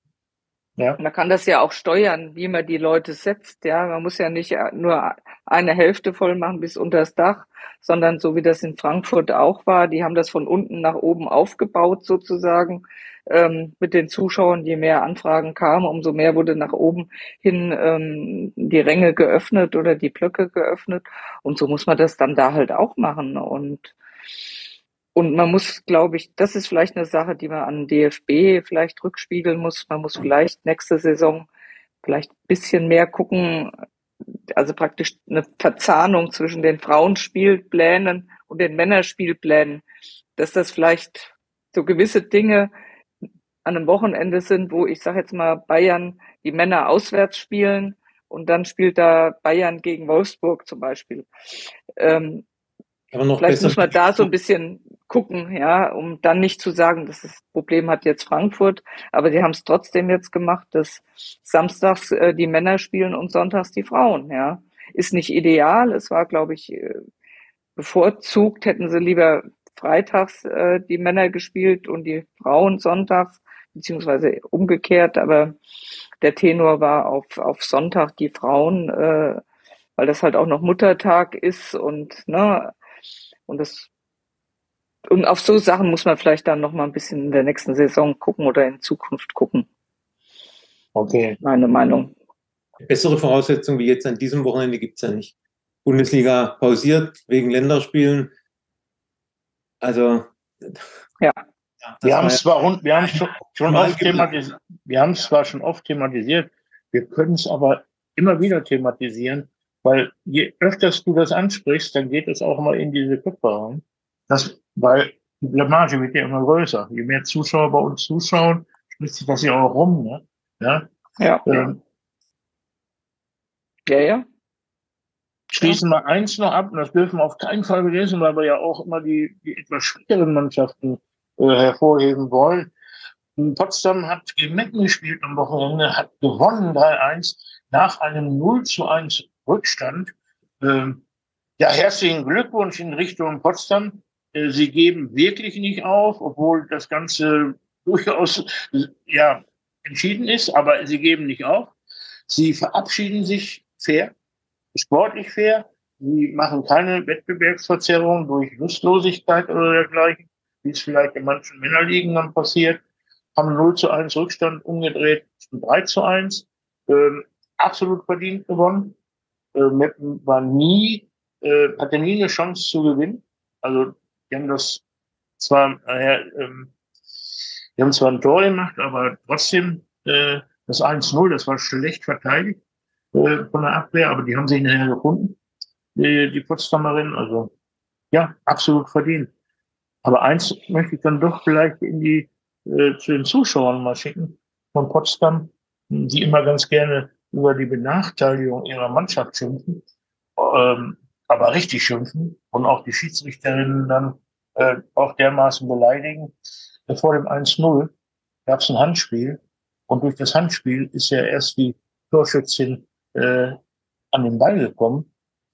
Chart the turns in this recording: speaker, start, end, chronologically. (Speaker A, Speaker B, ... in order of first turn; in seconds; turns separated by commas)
Speaker A: 1.0-23.9, Speaker A: 25.1-31.5, Speaker A: 32.0-33.7, Speaker A: 34.5-39.8, Speaker A: 40.4-42.7, Speaker A: 43.6-51.3, Speaker A: 52.0-52.4, Speaker B: 53.1-54.3, Speaker A: 53.4-67.0, Speaker A: 67.8-75.5, Speaker A: 76.2-79.4, Speaker A: 80.0-82.7, Speaker A: 83.5-83.9, Speaker A: 85.1-89.7, Speaker C: 90.9-91.4, Speaker A: 91.4-92.1, Speaker B: 92.8-95.3, Speaker B: 95.8-98.3, Speaker B: 99.8-100.8, Speaker B: 101.8-102.4, Speaker C: 102.0-120.9, Speaker B: 103.7-104.3, Speaker A: 121.2-121.6, Speaker C: 121.5-121.8, Speaker A: 123.9-124.2, Speaker C: 125.5-132.7, Speaker C: 133.4-141.0, Speaker C: 141.6-151.7, Speaker C: 152.3-154.1, Speaker C: 154.7-162.8, Speaker C: 163.3-168.9, Speaker C: 169.5-174.8, Speaker C: 175.4-176.7, Speaker C: 177.8-182.6, Speaker C: 183.1-185.4, Speaker C: 185.9-187.5, Speaker C: 188.1-189.3, Speaker C: 190.0-199.8, Speaker C: 200.4-206.3, Speaker C: 206.9-207.9, Speaker C: 208.5-213.6, Speaker C: 214.1-215.1